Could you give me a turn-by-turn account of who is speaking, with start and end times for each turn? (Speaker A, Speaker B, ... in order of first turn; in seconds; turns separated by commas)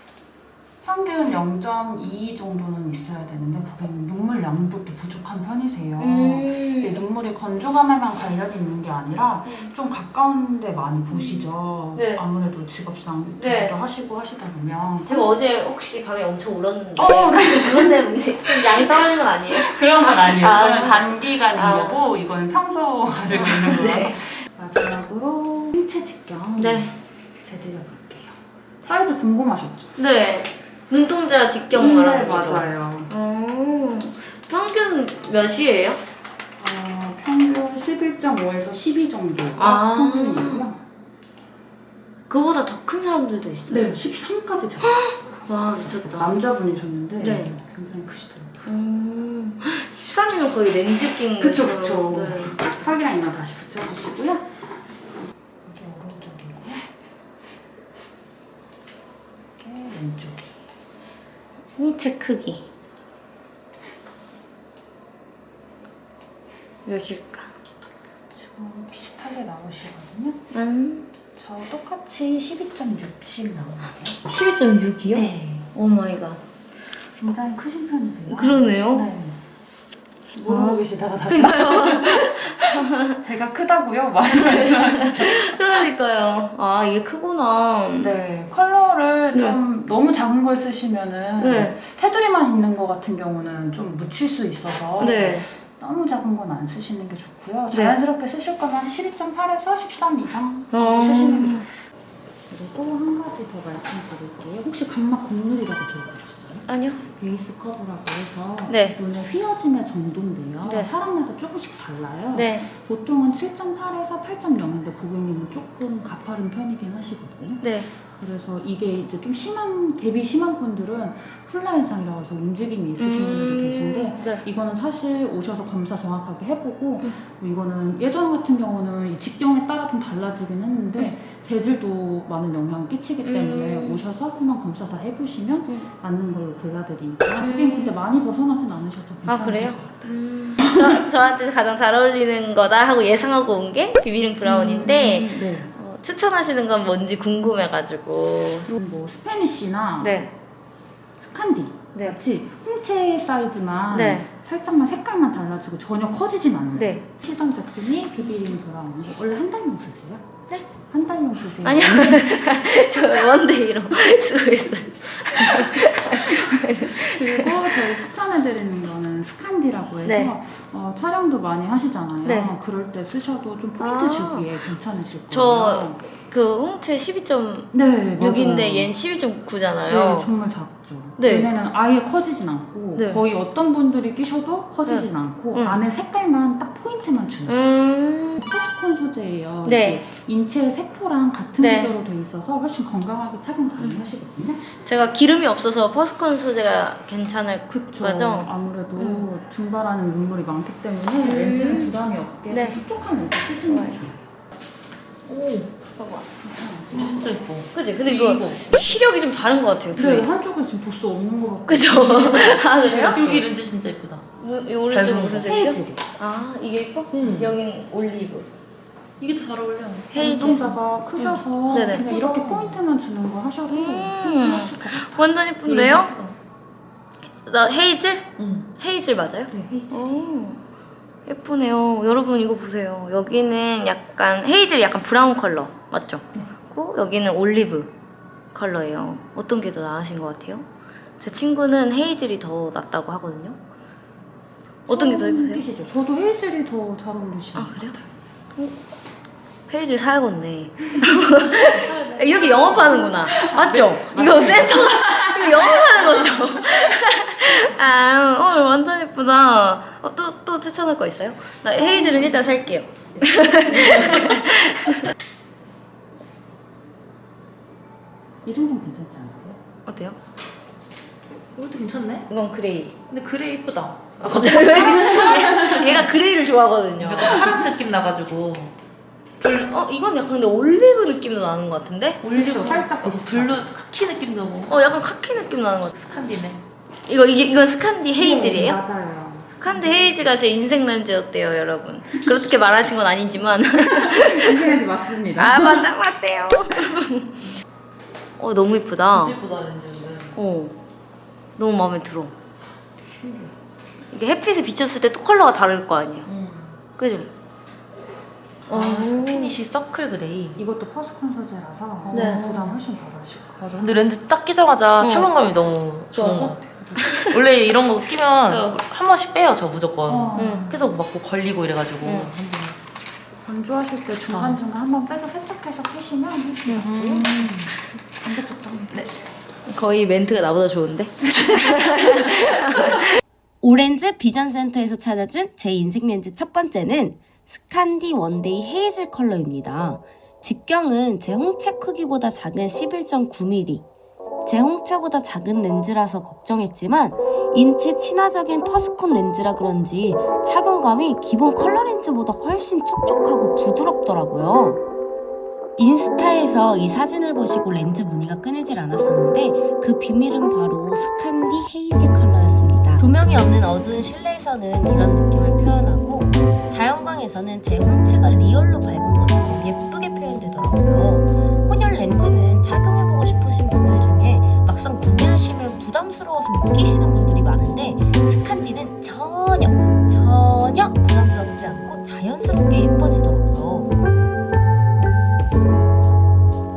Speaker A: 0.8-15.3, Speaker B: 6.0-7.0, Speaker B: 9.4-9.7, Speaker B: 11.1-12.2, Speaker B: 13.4-13.8, Speaker B: 15.1-22.0, Speaker A: 16.9-29.9, Speaker B: 23.3-24.3, Speaker B: 26.6-26.9, Speaker B: 30.0-36.0, Speaker A: 31.7-33.1, Speaker A: 36.6-40.8, Speaker B: 39.6-40.7, Speaker B: 42.3-43.9, Speaker A: 43.7-48.5, Speaker B: 44.8-46.4, Speaker B: 47.2-47.5, Speaker B: 48.6-52.6, Speaker A: 51.4-54.6, Speaker A: 55.6-56.9, Speaker A: 59.6-60.6, Speaker B: 61.8-62.6, Speaker B: 66.8-67.5, Speaker A: 68.3-70.4, Speaker B: 70.5-71.1, Speaker A: 71.3-74.2, Speaker B: 74.2-76.4, Speaker A: 75.1-75.7, Speaker A: 77.2-79.4, Speaker B: 78.3-79.1, Speaker A: 80.3-85.9, Speaker B: 80.4-83.2, Speaker B: 84.3-88.1, Speaker A: 88.0-101.7, Speaker B: 89.3-89.6, Speaker B: 91.4-91.8, Speaker B: 95.0-95.5, Speaker B: 97.7-98.0, Speaker B: 100.7-101.7, Speaker A: 102.5-140.9, Speaker B: 106.7-107.0, Speaker B: 108.7-109.0, Speaker B: 110.6-110.9, Speaker B: 112.3-112.7, Speaker B: 117.6-117.9, Speaker B: 123.0-124.5, Speaker B: 133.2-134.0, Speaker B: 137.4-137.9, Speaker B: 139.2-148.7, Speaker A: 144.4-145.7, Speaker A: 148.7-150.3, Speaker B: 150.0-150.3, Speaker A: 151.2-160.2, Speaker B: 151.9-152.2, Speaker B: 153.9-154.3, Speaker B: 156.8-157.0, Speaker A: 160.9-162.5, Speaker B: 161.6-167.7, Speaker A: 165.5-176.0, Speaker B: 170.0-170.4, Speaker B: 172.2-172.5, Speaker B: 173.8-174.5, Speaker B: 175.3-180.3, Speaker A: 177.7-178.9, Speaker A: 179.9-187.6, Speaker B: 181.2-181.5, Speaker B: 182.9-183.2, Speaker B: 184.9-185.8, Speaker B: 187.5-188.5, Speaker A: 188.4-194.7, Speaker B: 189.6-190.1, Speaker B: 191.6-192.0, Speaker B: 193.8-194.1, Speaker B: 194.8-199.3, Speaker A: 197.7-204.3, Speaker B: 201.2-201.9, Speaker B: 202.5-202.8, Speaker B: 203.7-204.0, Speaker C: 205.3-205.7, Speaker B: 206.0-206.3, Speaker A: 206.4-207.5, Speaker C: 206.9-209.0, Speaker B: 207.7-210.3, Speaker A: 209.9-213.4, Speaker B: 211.7-213.2, Speaker C: 212.7-214.2, Speaker B: 214.4-218.5, Speaker C: 214.9-215.5, Speaker A: 215.4-216.1, Speaker C: 217.1-217.6, Speaker C: 219.2-220.3, Speaker B: 220.1-220.7, Speaker A: 220.2-225.3, Speaker C: 221.2-222.0, Speaker B: 221.7-222.8, Speaker B: 223.7-226.1, Speaker C: 225.6-226.4, Speaker B: 227.4-230.6, Speaker C: 228.4-228.7, Speaker A: 229.5-230.3, Speaker B: 231.3-237.9, Speaker B: 238.5-240.7, Speaker B: 241.2-243.6, Speaker B: 244.9-245.6, Speaker A: 244.9-248.1, Speaker B: 247.5-248.0, Speaker B: 249.7-265.1, Speaker A: 251.7-256.1, Speaker A: 261.8-262.6, Speaker A: 263.1-264.3, Speaker C: 263.9-264.3, Speaker A: 268.4-269.6, Speaker B: 269.9-270.2, Speaker C: 271.6-272.3, Speaker B: 272.3-273.0, Speaker C: 273.1-276.1, Speaker B: 274.2-277.5, Speaker A: 274.8-275.2, Speaker C: 276.9-278.7, Speaker B: 279.4-282.3, Speaker C: 282.2-284.8, Speaker A: 282.3-283.7, Speaker B: 284.7-285.9, Speaker C: 285.9-286.6, Speaker B: 287.1-288.8, Speaker A: 288.1-290.2, Speaker B: 289.6-294.8, Speaker A: 294.0-295.9, Speaker B: 295.4-297.4, Speaker B: 298.4-299.4, Speaker C: 299.1-300.4, Speaker B: 300.4-300.8, Speaker B: 301.6-302.4, Speaker A: 303.2-303.5, Speaker B: 304.1-306.3, Speaker C: 306.2-306.8, Speaker B: 306.9-307.3, Speaker C: 308.7-310.6, Speaker B: 308.7-309.6, Speaker A: 310.6-313.7, Speaker C: 312.1-312.8, Speaker B: 312.1-312.4, Speaker C: 313.6-322.8, Speaker B: 315.0-315.3, Speaker B: 316.1-317.4, Speaker A: 316.5-317.1, Speaker B: 318.5-318.8, Speaker A: 320.1-320.8, Speaker B: 320.4-320.7, Speaker B: 322.0-322.3, Speaker A: 323.4-329.2, Speaker C: 324.3-324.6, Speaker C: 326.8-327.4, Speaker B: 329.7-333.1, Speaker D: 333.6-343.9, Speaker D: 344.4-354.8, Speaker D: 355.8-383.9